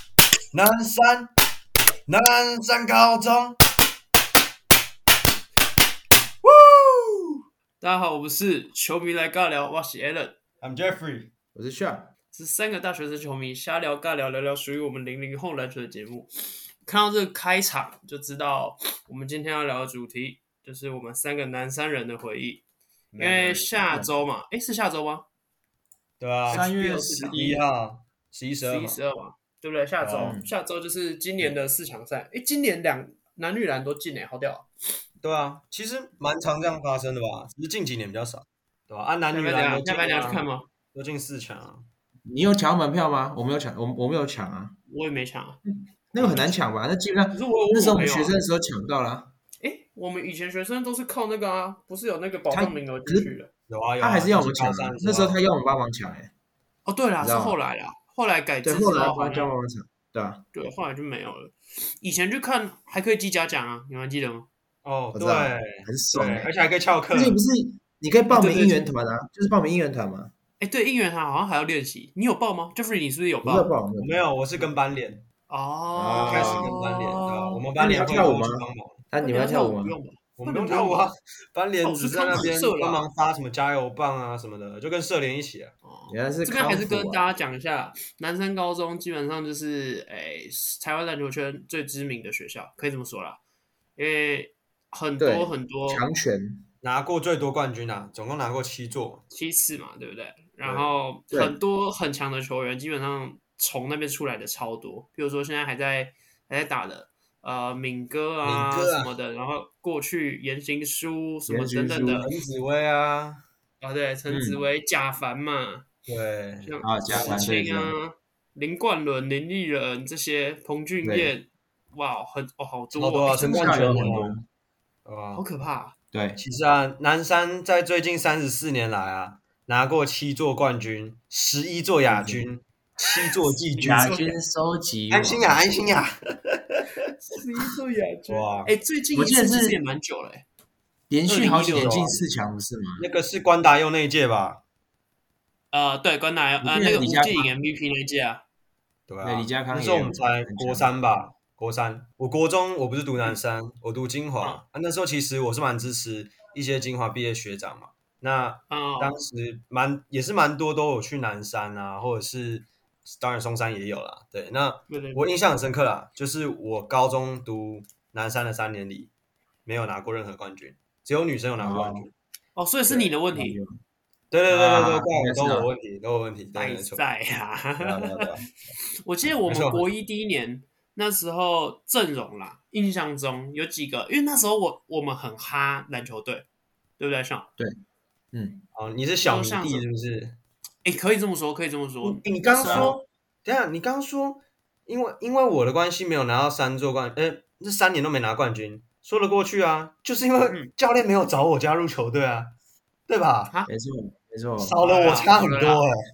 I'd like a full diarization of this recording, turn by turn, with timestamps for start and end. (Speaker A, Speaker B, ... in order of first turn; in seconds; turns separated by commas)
Speaker A: 0.5-1.3, Speaker A: 2.1-3.6, Speaker A: 6.4-7.4, Speaker B: 7.8-10.4, Speaker A: 10.6-11.3, Speaker C: 11.5-12.1, Speaker B: 12.3-16.3, Speaker B: 16.8-22.6, Speaker A: 23.1-23.8, Speaker B: 23.2-25.2, Speaker A: 26.2-26.7, Speaker B: 26.5-27.5, Speaker C: 26.5-27.6, Speaker A: 27.3-29.0, Speaker B: 28.6-34.7, Speaker A: 30.0-30.4, Speaker C: 30.2-30.5, Speaker A: 35.2-41.9, Speaker B: 39.3-40.7, Speaker C: 42.3-44.8, Speaker B: 44.9-45.6, Speaker C: 45.7-49.3, Speaker A: 46.2-46.5, Speaker B: 47.3-48.4, Speaker B: 49.6-53.5, Speaker C: 52.5-53.3, Speaker A: 53.7-55.4, Speaker C: 54.0-56.3, Speaker B: 56.9-59.5, Speaker C: 57.2-57.6, Speaker C: 58.6-60.4, Speaker B: 60.5-64.5, Speaker A: 64.8-67.4, Speaker C: 65.1-66.5, Speaker C: 67.1-70.3, Speaker B: 68.3-68.8, Speaker B: 70.6-73.7, Speaker C: 73.4-74.2, Speaker A: 74.0-75.2, Speaker B: 75.5-77.6, Speaker C: 75.9-76.7, Speaker A: 76.2-79.0, Speaker C: 77.8-80.0, Speaker B: 79.2-81.1, Speaker A: 80.4-85.7, Speaker B: 81.8-83.1, Speaker B: 85.8-93.4, Speaker C: 86.1-87.2, Speaker B: 94.0-96.0, Speaker C: 95.2-96.6, Speaker A: 96.8-99.2, Speaker B: 99.3-112.3, Speaker A: 100.6-100.9, Speaker C: 101.3-101.5, Speaker A: 108.4-109.1, Speaker C: 111.5-112.3, Speaker A: 112.2-113.4, Speaker B: 113.8-115.9, Speaker C: 114.3-114.6, Speaker A: 116.1-117.5, Speaker B: 116.6-124.3, Speaker C: 116.8-117.9, Speaker C: 121.0-121.3, Speaker A: 123.0-124.3, Speaker C: 123.4-124.5, Speaker A: 125.0-125.4, Speaker B: 125.3-125.9, Speaker C: 126.1-126.4, Speaker A: 126.4-134.1, Speaker C: 132.1-132.5, Speaker B: 133.8-134.4, Speaker C: 133.8-135.7, Speaker A: 135.1-137.1, Speaker B: 137.2-140.4, Speaker A: 138.3-138.7, Speaker C: 139.1-139.8, Speaker C: 141.1-143.0, Speaker B: 141.3-142.2, Speaker A: 141.6-142.2, Speaker A: 143.0-144.6, Speaker B: 145.7-148.4, Speaker C: 146.6-147.5, Speaker A: 149.1-169.1, Speaker C: 149.2-150.9, Speaker B: 158.7-159.2, Speaker B: 164.9-165.2, Speaker A: 169.7-172.1, Speaker C: 171.6-172.1, Speaker B: 172.5-173.6, Speaker C: 173.3-173.8, Speaker A: 174.3-177.0, Speaker C: 174.5-175.7, Speaker B: 176.5-178.3, Speaker A: 177.8-178.5, Speaker B: 179.0-186.4, Speaker A: 179.5-179.8, Speaker B: 187.0-187.5, Speaker C: 188.3-188.6, Speaker A: 188.7-190.4, Speaker B: 189.2-189.8, Speaker B: 190.8-193.0, Speaker A: 192.0-202.5, Speaker C: 192.6-192.9, Speaker B: 200.4-200.7, Speaker A: 203.1-203.5, Speaker C: 203.7-204.8, Speaker A: 204.6-206.0, Speaker B: 204.8-205.8